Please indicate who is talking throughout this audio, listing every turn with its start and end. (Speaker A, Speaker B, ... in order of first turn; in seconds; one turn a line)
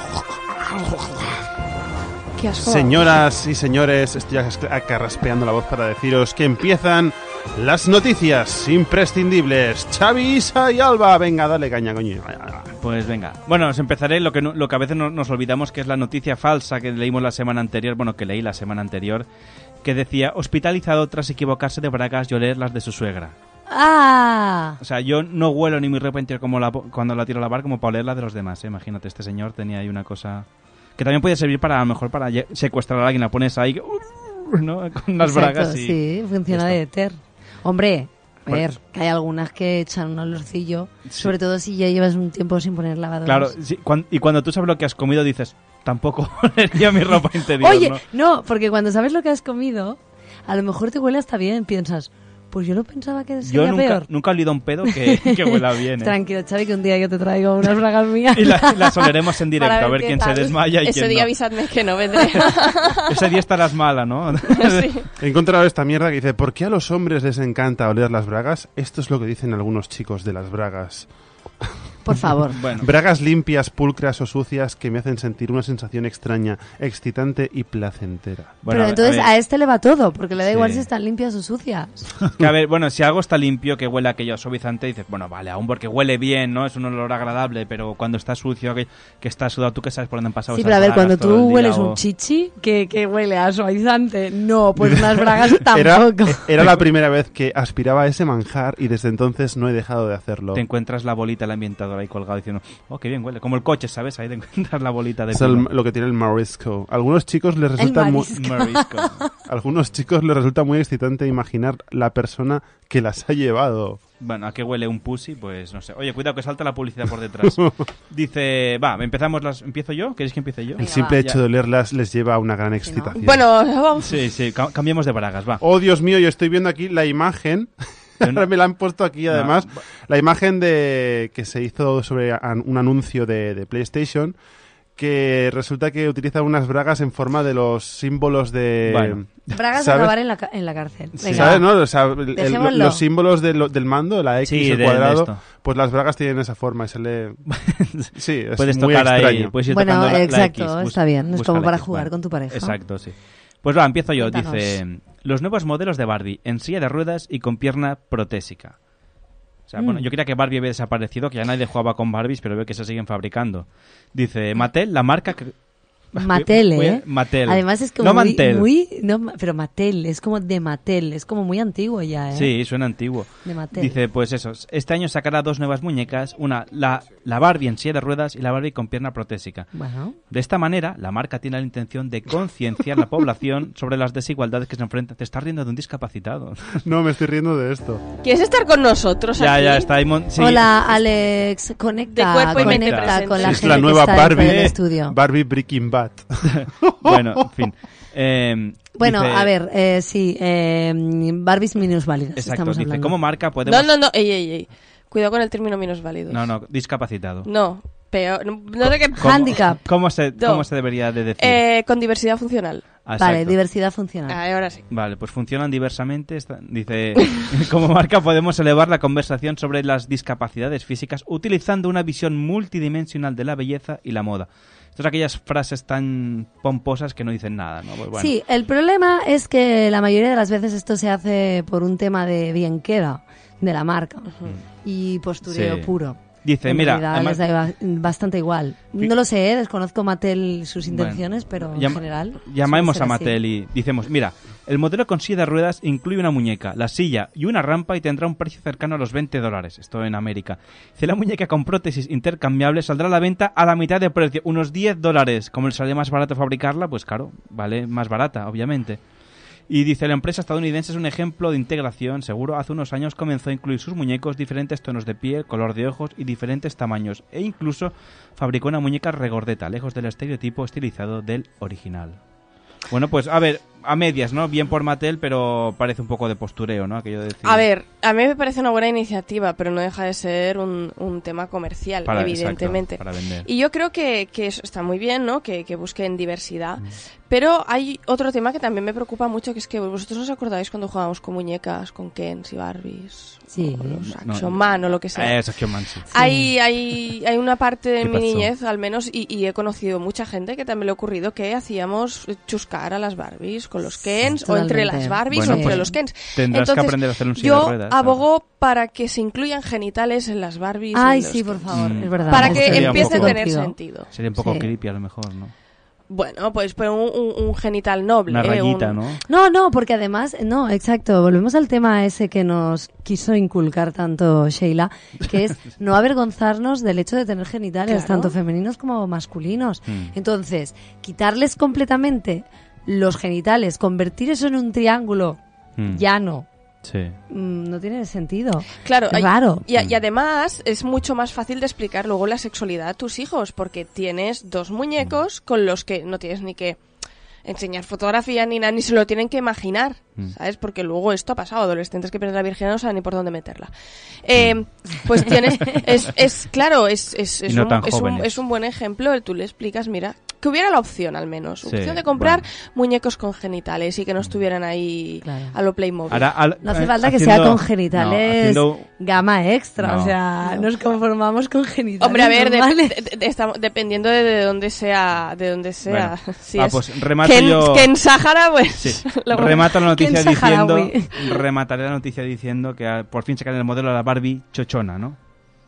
Speaker A: 2.4-3.1
Speaker B: 2.6-12.7
Speaker C: 12.8-19.3
Speaker C: 19.8-23.4
Speaker D: 23.7-24.8
Speaker C: 24.8-36.0
Speaker D: 35.2-43.5
Speaker C: 36.5-36.8
Speaker C: 41.1-41.3
Speaker C: 43.3-48.0
Speaker D: 47.6-54.1
Speaker C: 53.4-56.1
Speaker D: 54.9-60.6
Speaker C: 58.4-61.3
Speaker A: 60.8-63.0
Speaker C: 62.2-65.0
Speaker A: 64.5-65.0
Speaker B: 65.2-71.1
Speaker D: 72.0-72.6
Speaker B: 72.2-78.5
Speaker C: 72.5-72.9
Speaker C: 78.6-79.3
Speaker D: 78.7-82.1
Speaker C: 80.4-80.9
Speaker C: 82.3-92.0
Speaker D: 90.5-96.5
Speaker B: 94.8-100.6
Speaker C: 100.5-105.7
Speaker B: 105.3-108.3
Speaker D: 107.8-109.1
Speaker C: 108.3-109.2
Speaker B: 109.5-114.0
Speaker C: 114.2-121.4
Speaker D: 120.8-121.2
Speaker B: 120.8-123.5
Speaker D: 122.8-123.2
Speaker A: 123.2-124.2
Speaker C: 124.0-125.6
Speaker B: 125.6-134.4
Speaker C: 128.2-128.5
Speaker C: 129.3-129.7
Speaker B: 135.0-139.2
Speaker C: 138.9-139.2
Speaker D: 139.5-141.7
Speaker B: 139.8-140.1
Speaker C: 141.2-141.5
Speaker B: 141.3-147.4
Speaker D: 142.3-143.0
Speaker C: 144.4-145.4
Speaker C: 147.5-158.8
Speaker B: 148.2-149.5
Speaker D: 149.7-152.8
Speaker D: 154.2-154.8
Speaker C: 159.7-165.5
Speaker D: 159.8-160.1
Speaker C: 166.1-168.7
Speaker D: 166.2-172.5
Speaker C: 172.3-179.7
Speaker D: 173.4-174.0
Speaker D: 179.7-180.2
Speaker C: 180.3-186.8
Speaker B: 186.8-188.0
Speaker A: 188.2-189.9
Speaker C: 189.4-191.0
Speaker D: 190.4-195.2
Speaker A: 192.1-193.8
Speaker C: 192.5-194.8
Speaker B: 193.4-196.5
Speaker C: 196.5-199.5
Speaker D: 199.0-203.1
Speaker C: 202.4-203.9
Speaker A: 203.7-206.5
Speaker C: 206.3-207.5
Speaker A: 207.4-209.6
Speaker C: 208.8-211.6
Speaker D: 209.2-209.8
Speaker A: 210.4-210.7
Speaker A: 211.4-212.8
Speaker C: 213.1-213.6
Speaker D: 213.2-214.4
Speaker A: 214.3-214.8
Speaker C: 214.9-228.3
Speaker D: 228.2-234.3
Speaker A: 234.3-234.6
Speaker D: 234.8-243.4
Speaker C: 235.5-235.9
Speaker C: 236.4-237.4
Speaker C: 240.8-259.0
Speaker C: 259.7-272.2
Speaker C: 272.9-277.7
Speaker A: 277.4-295.4
Speaker C: 282.1-283.5
Speaker D: 293.5-294.0
Speaker C: 294.1-296.1
Speaker A: 296.1-311.7
Speaker D: 296.1-296.5
Speaker C: 298.0-298.5
Speaker D: 304.0-305.8
Speaker C: 305.3-308.2
Speaker D: 310.9-313.8
Speaker C: 311.7-313.4
Speaker A: 312.3-314.1
Speaker C: 314.1-315.5
Speaker D: 314.4-314.7
Speaker A: 316.1-319.0
Speaker C: 318.3-319.2
Speaker D: 319.3-336.5
Speaker A: 327.9-328.4
Speaker C: 329.9-330.1
Speaker C: 335.8-336.0
Speaker C: 336.8-337.2
Speaker D: 337.3-339.6
Speaker A: 338.9-346.8
Speaker A: 347.4-353.7
Speaker A: 354.2-366.3
Speaker C: 354.4-354.6
Speaker C: 355.2-355.8
Speaker C: 357.5-358.4
Speaker C: 361.6-362.4
Speaker D: 365.2-365.5
Speaker C: 366.1-368.9
Speaker D: 366.6-372.9
Speaker C: 369.8-370.1
Speaker A: 372.0-379.8
Speaker C: 375.9-377.9
Speaker C: 378.8-385.2
Speaker D: 379.9-381.1